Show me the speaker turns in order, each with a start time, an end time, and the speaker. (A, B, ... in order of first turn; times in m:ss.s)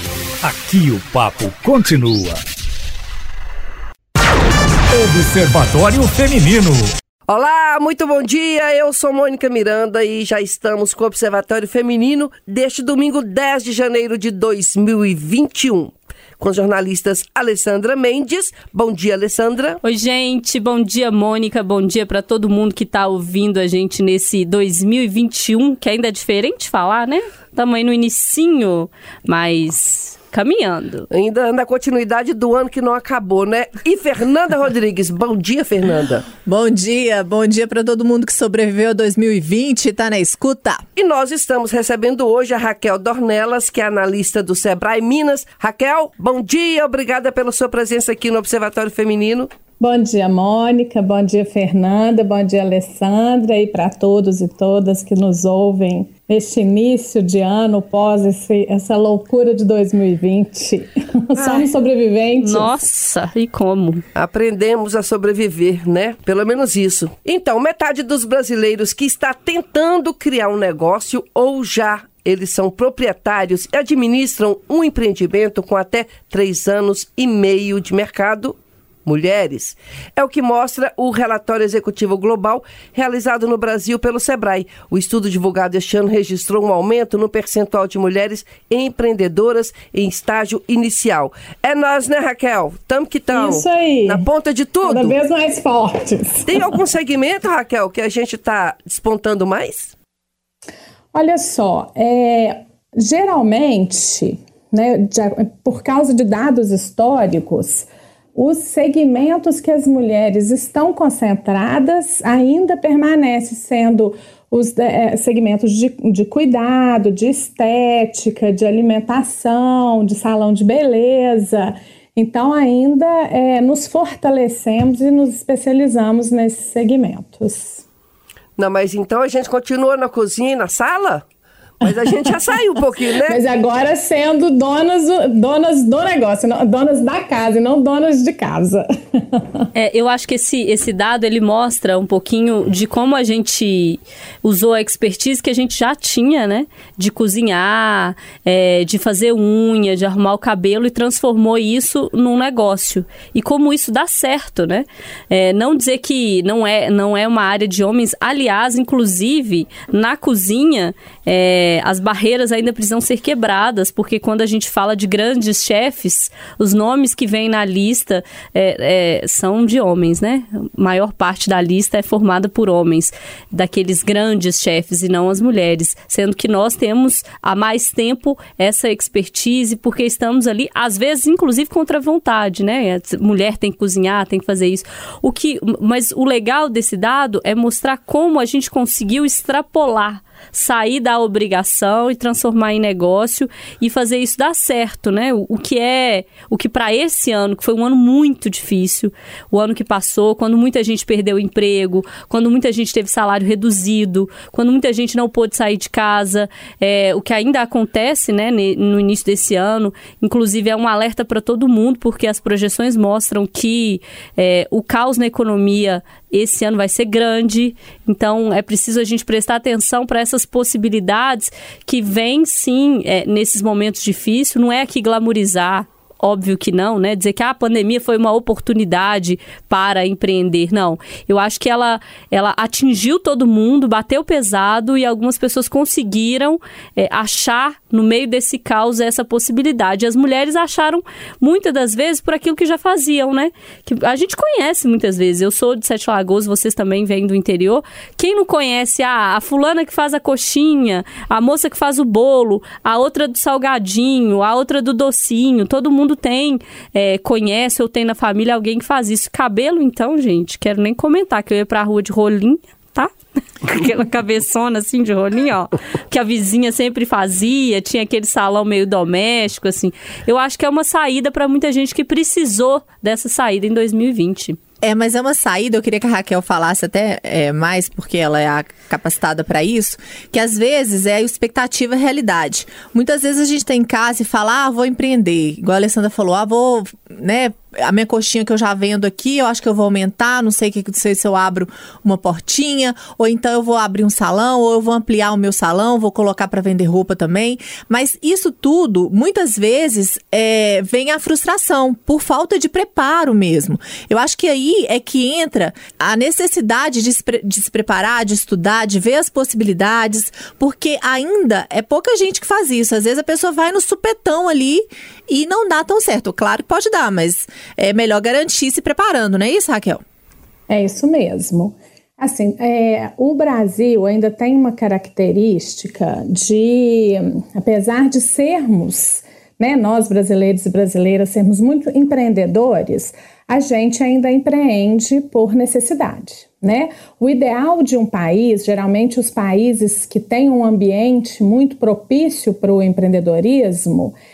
0:00.4-0:02.4 A
0:04.9-0:06.9 A
0:07.3-0:19.8 B
0:19.8-0:31.1 C
0:31.1-0:36.3 B
0:36.4-0:40.8 D
0:41.0-0:49.5 B
0:49.8-1:02.7 E
1:01.4-1:01.7 B
1:02.4-1:04.0 C
1:04.2-1:35.2 B
1:33.3-1:34.3 E
1:34.8-1:36.6 E
1:36.4-1:39.9 B
1:41.1-2:07.8 E
2:08.6-2:11.2 B
2:11.8-2:13.4 B
2:13.2-2:19.6 E
2:19.8-4:34.6 C
4:34.8-5:20.0 D
5:20.7-5:44.2 E